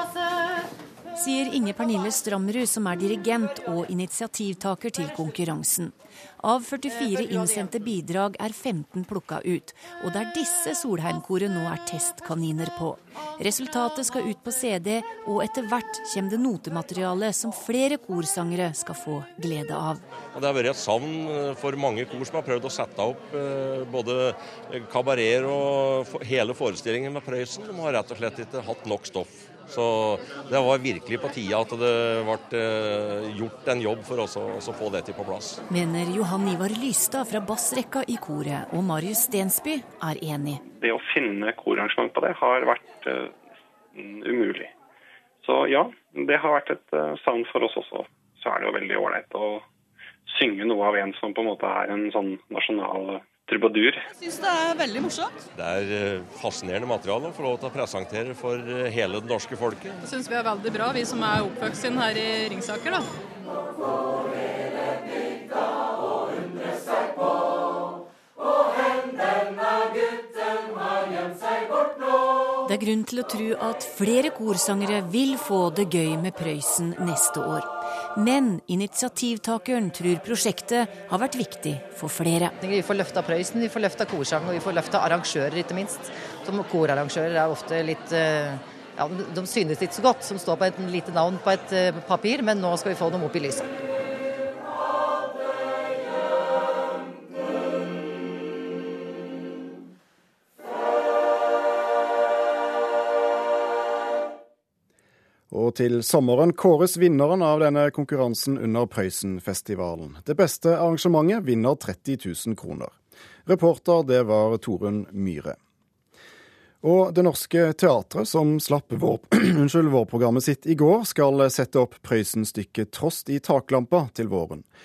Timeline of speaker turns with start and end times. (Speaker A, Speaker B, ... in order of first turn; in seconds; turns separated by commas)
Speaker A: 1.1-20.0, Speaker B: 20.3-35.6, Speaker A: 35.7-40.6, Speaker C: 40.8-43.2, Speaker C: 44.0-44.7, Speaker C: 45.4-49.6, Speaker C: 50.3-53.9, Speaker B: 55.5-60.0, Speaker D: 60.0-63.1, Speaker A: 72.7-82.5, Speaker E: 82.6-93.7, Speaker F: 105.5-112.9, Speaker F: 113.5-115.5, Speaker F: 116.8-124.6